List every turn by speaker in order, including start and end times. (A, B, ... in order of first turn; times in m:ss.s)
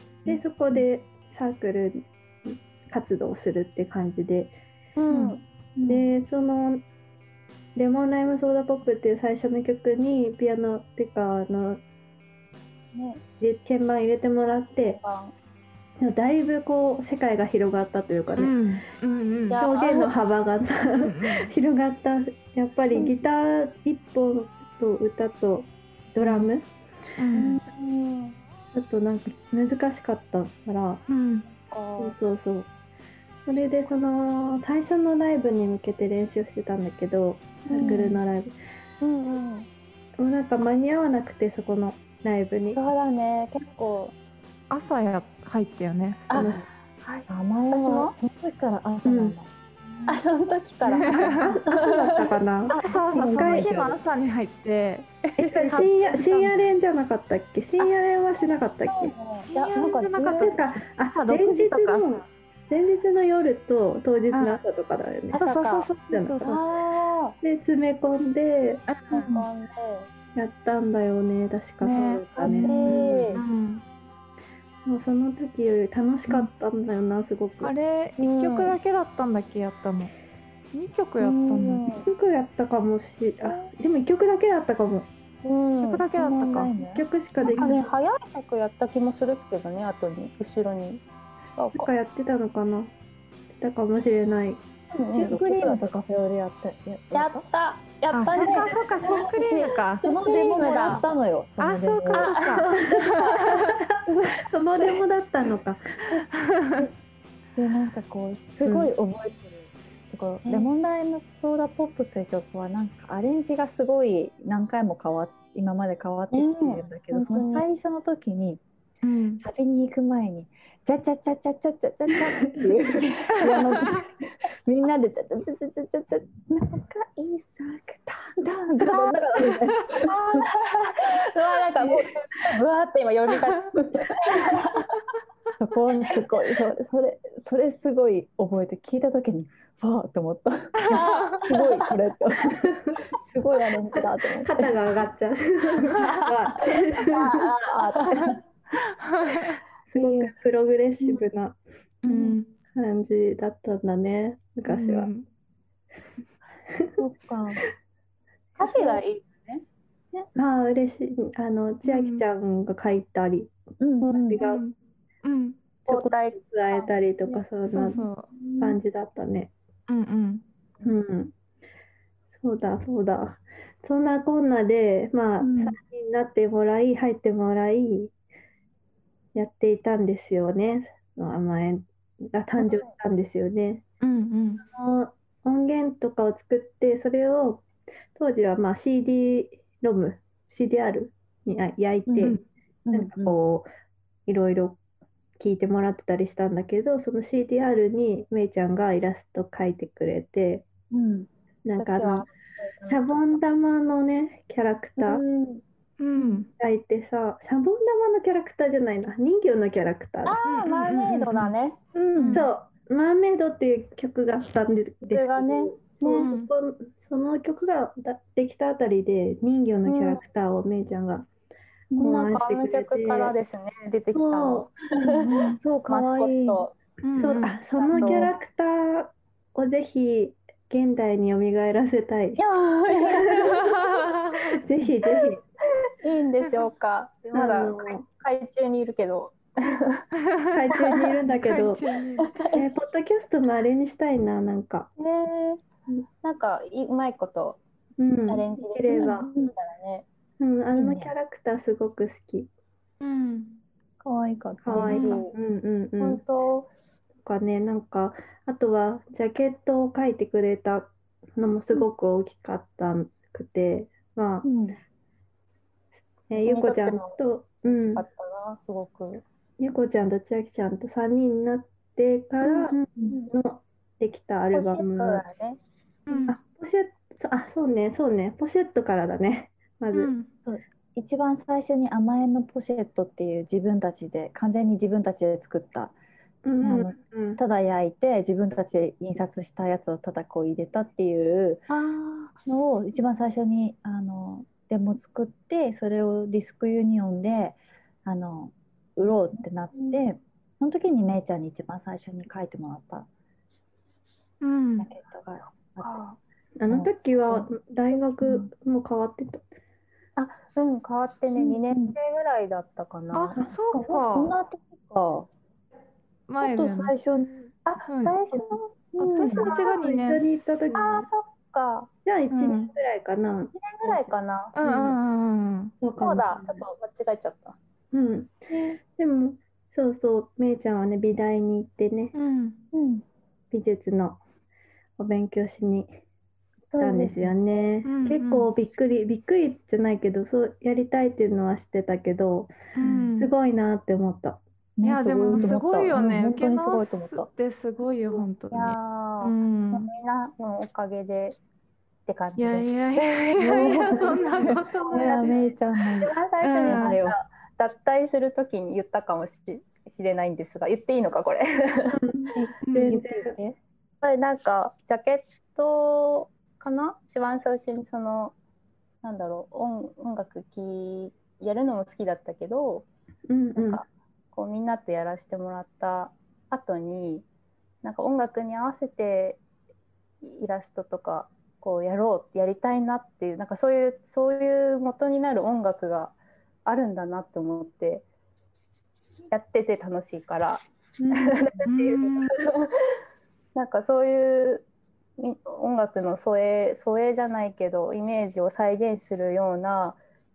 0:00.2-0:00.8 A
0:00.2-0:04.5 B
0:05.0-0:05.4 C
0:05.1-0:05.4 D
0:05.8-0:06.1 A
0:05.8-0:06.8 B
0:07.8-0:11.8 B
0:12.9-0:13.2 C
0:13.4-0:15.0 B
0:14.8-0:15.3 C
0:16.0-0:18.6 B
0:18.4-0:19.6 D
0:19.5-0:20.1 C
0:19.6-0:26.7 B
0:21.0-0:21.5 D
0:26.2-0:26.5 D
0:27.2-0:27.6 D
0:27.3-0:28.4 C
0:28.7-0:31.0 B
0:31.1-0:31.5 D
0:31.7-0:32.2 C
0:32.0-0:32.7 B
0:33.5-0:38.5 B
0:37.7-0:38.0 C
0:37.8-0:38.2 A
0:39.0-0:39.7 C
0:40.2-0:42.8 B
0:42.7-0:44.2 C
0:44.7-0:46.7 D
0:46.3-0:48.2 C
0:46.3-0:46.7 B
0:47.3-0:49.5 A
0:49.0-0:49.3 B
0:50.1-0:52.4 C
0:50.9-0:51.6 D
0:51.4-0:53.8 B
0:52.7-0:54.0 A
0:52.8-0:56.6 D
0:55.4-0:59.2 B
0:57.8-1:00.6 C
0:59.3-1:02.2 D
1:00.3-1:05.5 B
1:04.3-1:04.6 D
1:05.3-1:05.9 C
1:05.3-1:06.6 D
1:06.1-1:06.6 B
1:06.4-1:07.4 C
1:07.4-1:08.8 B
1:08.9-1:09.4 D
1:09.1-1:10.1 C
1:09.2-1:09.4 A
1:10.3-1:13.3 B
1:11.8-1:13.8 D
1:12.4-1:13.4 C
1:12.4-1:13.3 A
1:14.8-1:17.7 B
1:17.6-1:20.1 D
1:18.2-1:18.8 C
1:20.7-1:21.9 D
1:21.2-1:22.1 C
1:21.9-1:25.1 B
1:23.4-1:23.7 C
1:25.4-1:26.1 C
1:25.8-1:26.7 D
1:26.1-1:27.7 A
1:26.9-1:27.8 B
1:27.5-1:31.0 C
1:31.6-1:31.9 C
1:31.7-1:32.9 B
1:33.6-1:34.6 B
1:34.9-1:35.9 C
1:35.1-1:37.4 A
1:37.1-1:41.1 C
1:38.1-1:40.0 D
1:38.3-1:38.6 B
1:40.0-1:42.4 A
1:41.6-1:43.8 D
1:42.1-1:43.4 C
1:44.1-1:44.4 A
1:44.4-1:45.8 B
1:46.2-1:46.9 D
1:47.6-1:58.6 A
1:48.6-1:48.9 B
1:50.4-1:50.7 C
1:56.3-1:57.6 C
1:59.0-1:59.4 D
1:59.4-2:10.5 A
2:03.4-2:04.0 D
2:09.9-2:15.0 C
2:15.6-2:24.8 A
2:16.0-2:16.6 C
2:20.8-2:21.4 D
2:20.9-2:21.9 C
2:24.4-2:27.5 B
2:26.0-2:26.3 C
2:27.1-2:28.4 A
2:27.1-2:28.3 C
2:28.2-2:29.6 D
2:29.9-2:30.3 A
2:29.9-2:31.6 B
2:32.0-2:32.5 D
2:32.1-2:32.4 A
2:32.7-2:35.1 B
2:34.7-2:35.3 D
2:37.0-2:37.6 A
2:38.6-2:39.6 C
2:40.3-2:43.5 B
2:41.8-2:42.3 D
2:43.8-2:44.4 A
2:44.0-2:44.3 C
2:44.1-2:44.6 B
2:44.4-2:45.6 D
2:45.8-2:47.4 C
2:45.8-2:48.0 B
2:47.7-2:48.3 D
2:48.3-2:48.8 C
2:48.6-2:49.5 B
2:49.9-2:50.4 D
2:50.8-2:51.3 B
2:52.3-2:58.1 B
2:55.4-2:55.8 A
2:59.3-3:03.8 B
3:04.0-3:04.6 D
3:04.6-3:12.4 B
3:12.1-3:13.4 A
3:12.9-3:13.7 B
3:14.3-3:14.8 B
3:15.4-3:20.7 B
3:20.9-3:21.3 A
3:21.6-3:22.3 B
3:21.8-3:23.4 C
3:22.8-3:25.2 B
3:25.0-3:25.6 C
3:26.0-3:26.5 D
3:26.6-3:30.4 B
3:30.2-3:32.3 C
3:30.4-3:31.5 D
3:32.2-3:32.5 A
3:32.2-3:32.4 D
3:32.3-3:41.3 B
3:35.1-3:36.3 C
3:36.2-3:36.5 D
3:39.8-3:40.2 C
3:41.9-3:42.2 A
3:42.0-3:46.7 C
3:42.0-3:43.3 B
3:44.1-3:44.7 B
3:45.0-3:46.6 A
3:47.0-3:47.6 D
3:47.2-3:53.6 B
3:47.7-3:48.3 C
3:47.9-3:48.3 A
3:52.4-3:53.8 C
3:53.6-3:54.5 D
3:54.6-3:55.4 B
3:56.0-4:00.0 C
3:57.3-3:58.0 B
4:00.2-4:00.6 D
4:00.5-4:01.8 B
4:00.8-4:01.1 C
4:01.3-4:02.4 D
4:02.2-4:02.6 C
4:02.5-4:04.9 B
4:05.0-4:05.6 C
4:06.2-4:07.6 C
4:08.0-4:09.3 B
4:08.3-4:10.0 C
4:10.4-4:12.5 B
4:10.8-4:11.1 A
4:13.0-4:13.6 D
4:14.0-4:15.2 A
4:14.6-4:16.2 B
4:14.7-4:15.3 C
4:14.8-4:15.1 D
4:16.0-4:16.7 C
4:17.2-4:24.5 B
4:24.4-4:24.8 A
4:26.3-4:28.0 B
4:26.4-4:29.2 C
4:29.6-4:35.2 B
4:32.4-4:33.3 C
4:34.5-4:35.6 C
4:36.1-4:36.4 D
4:36.3-4:40.1 B
4:39.9-4:40.3 D
4:40.5-4:45.9 A
4:46.4-4:47.4 B
4:46.6-4:51.7 A
4:51.7-4:52.3 C
4:52.5-5:03.1 A
4:59.7-5:00.0 C
5:04.4-5:04.9 D
5:04.8-5:06.0 A
5:05.6-5:06.2 C
5:06.6-5:09.4 B
5:06.7-5:07.5 A
5:08.2-5:08.5 A
5:10.2-5:13.4 C
5:11.4-5:12.0 A
5:13.1-5:14.4 D
5:13.7-5:15.3 A
5:16.3-5:16.9 D
5:16.4-5:17.5 A
5:17.6-5:19.7 C
5:17.9-5:18.2 D
5:19.0-5:20.2 D
5:19.2-5:21.1 B
5:20.7-5:21.9 C
5:22.0-5:24.1 B
5:22.3-5:22.7 D
5:23.5-5:25.0 C
5:24.6-5:25.8 D
5:25.8-5:26.6 B
5:26.0-5:27.6 C
5:27.9-5:28.4 B
5:28.5-5:28.8 C
5:28.9-5:32.1 B
5:32.1-5:32.6 D
5:32.7-5:33.0 A
5:33.5-5:34.2 B
5:35.0-5:36.0 B
5:36.7-5:37.3 C
5:36.8-5:42.5 B
5:37.8-5:38.5 D
5:42.8-5:43.3 D
5:42.8-5:43.1 A
5:43.2-5:44.4 B
5:44.8-5:47.3 A
5:44.8-5:49.9 D
5:48.5-5:51.4 C
5:52.1-5:54.2 C
5:52.4-5:55.4 D
5:53.4-5:57.2 A
5:54.8-6:02.0 C
5:56.4-5:57.0 D
6:01.9-6:03.4 B
6:02.4-6:03.6 A
6:02.6-6:03.0 D
6:04.0-6:08.4 C
6:09.0-6:12.9 C
6:13.3-6:13.8 B
6:13.6-6:17.3 C
6:17.8-6:19.4 C
6:20.2-6:28.1 C
6:29.3-6:33.0 C
6:31.0-6:31.4 B
6:31.6-6:32.4 D
6:33.6-6:34.6 C
6:35.2-6:40.0 C